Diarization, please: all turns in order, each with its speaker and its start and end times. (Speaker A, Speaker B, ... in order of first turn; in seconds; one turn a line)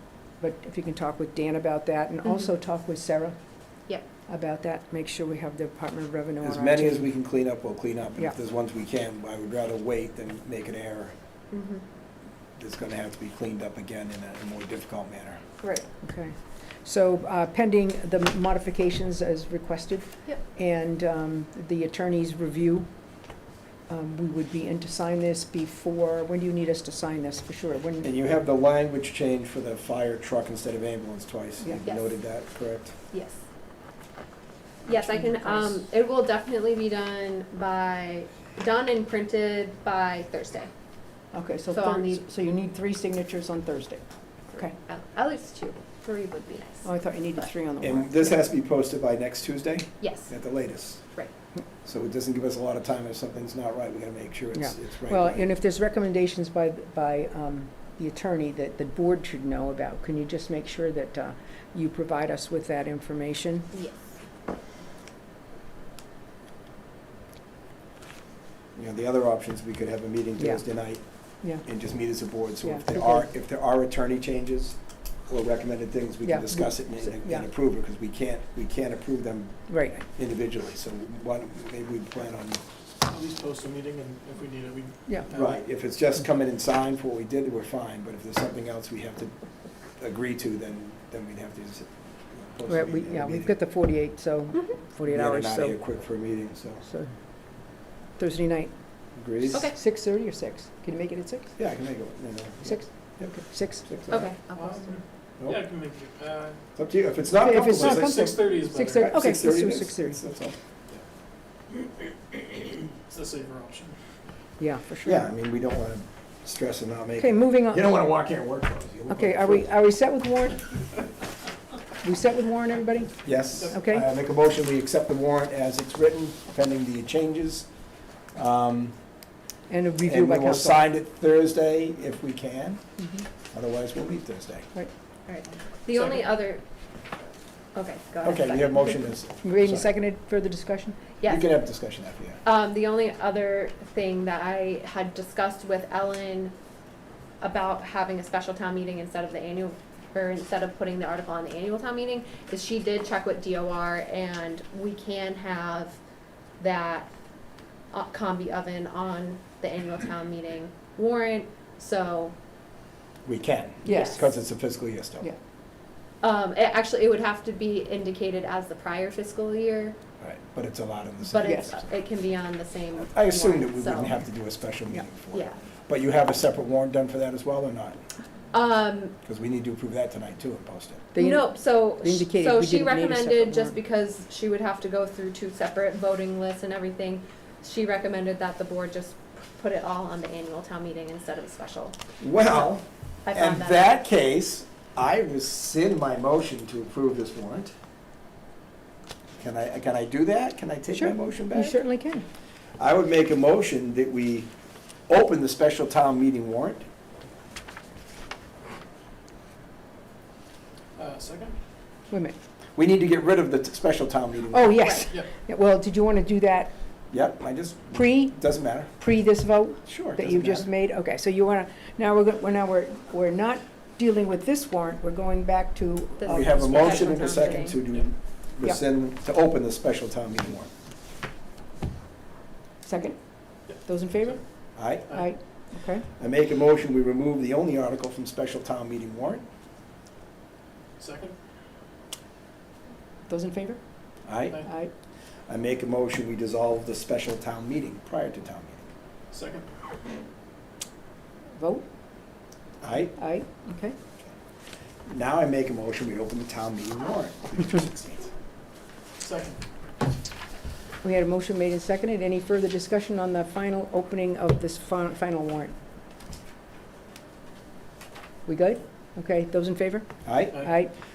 Speaker A: 0.4-3.4
Speaker A: 4.3-7.1
Speaker B: 6.4-11.1
Speaker C: 11.5-11.8
Speaker B: 12.6-15.4
Speaker C: 15.6-15.9
Speaker A: 16.0-22.9
Speaker A: 23.9-28.1
Speaker B: 28.0-32.9
Speaker C: 33.1-33.4
Speaker C: 34.9-40.7
Speaker A: 34.9-35.8
Speaker A: 41.3-44.0
Speaker C: 41.7-42.2
Speaker C: 44.5-46.9
Speaker A: 46.8-48.5
Speaker B: 47.8-51.0
Speaker C: 50.0-50.3
Speaker B: 51.8-55.5
Speaker A: 54.5-63.7
Speaker C: 63.7-64.0
Speaker B: 68.8-74.8
Speaker A: 70.4-70.6
Speaker A: 72.6-73.2
Speaker B: 75.3-82.6
Speaker A: 76.2-77.5
Speaker A: 79.7-80.0
Speaker D: 83.0-85.6
Speaker B: 85.3-89.3
Speaker B: 90.0-93.5
Speaker A: 92.7-95.8
Speaker B: 95.1-96.8
Speaker A: 96.8-97.1
Speaker A: 98.2-98.7
Speaker B: 99.2-99.7
Speaker C: 99.5-99.8
Speaker A: 99.7-101.5
Speaker B: 101.6-103.3
Speaker A: 102.6-104.2
Speaker B: 103.9-104.3
Speaker C: 104.1-105.0
Speaker D: 104.5-106.6
Speaker B: 106.7-108.4
Speaker A: 107.3-110.2
Speaker D: 107.7-109.2
Speaker B: 108.9-110.5
Speaker D: 112.3-113.9
Speaker A: 114.6-115.2
Speaker B: 115.0-119.7
Speaker A: 117.2-117.9
Speaker A: 119.1-120.6
Speaker A: 122.0-123.1
Speaker B: 123.2-127.7
Speaker A: 123.7-124.0
Speaker B: 128.3-128.9
Speaker A: 129.7-130.8
Speaker B: 130.1-132.8
Speaker B: 133.5-134.7
Speaker C: 135.3-136.6
Speaker C: 137.7-139.1
Speaker B: 138.2-139.9
Speaker A: 139.4-141.0
Speaker C: 141.2-141.6
Speaker B: 141.2-142.4
Speaker C: 142.4-146.5
Speaker C: 147.4-156.0
Speaker C: 156.6-157.1
Speaker C: 157.9-162.3
Speaker B: 163.2-165.3
Speaker A: 163.8-164.3
Speaker C: 163.9-164.2
Speaker C: 166.2-169.9
Speaker B: 170.2-171.9
Speaker C: 171.3-174.2
Speaker A: 171.4-171.7
Speaker B: 173.0-178.0
Speaker C: 175.3-175.6
Speaker C: 178.5-179.1
Speaker B: 179.2-181.1
Speaker A: 181.1-183.8
Speaker C: 181.2-192.0
Speaker B: 192.2-197.7
Speaker C: 193.2-193.9
Speaker B: 199.4-201.8
Speaker A: 200.9-202.2
Speaker B: 202.8-204.5
Speaker B: 205.1-206.8
Speaker D: 210.9-211.6
Speaker A: 212.1-212.3
Speaker B: 212.8-215.0
Speaker A: 214.5-216.7
Speaker B: 217.1-218.9
Speaker A: 217.9-218.4
Speaker A: 219.0-227.5
Speaker B: 219.8-220.7
Speaker C: 226.2-227.8
Speaker B: 226.2-230.7
Speaker A: 232.8-233.2
Speaker D: 233.7-234.4
Speaker A: 233.8-234.4
Speaker B: 234.8-235.1
Speaker A: 235.1-236.1
Speaker B: 236.2-239.4
Speaker D: 241.0-241.3
Speaker A: 243.3-243.8
Speaker B: 244.2-244.6
Speaker A: 244.6-244.9
Speaker B: 245.5-248.8
Speaker D: 249.3-249.7
Speaker A: 251.6-251.8
Speaker B: 252.8-253.2
Speaker A: 253.2-253.9
Speaker B: 255.1-258.3
Speaker D: 259.2-259.6
Speaker A: 261.0-265.7
Speaker A: 268.4-270.9
Speaker B: 270.2-270.7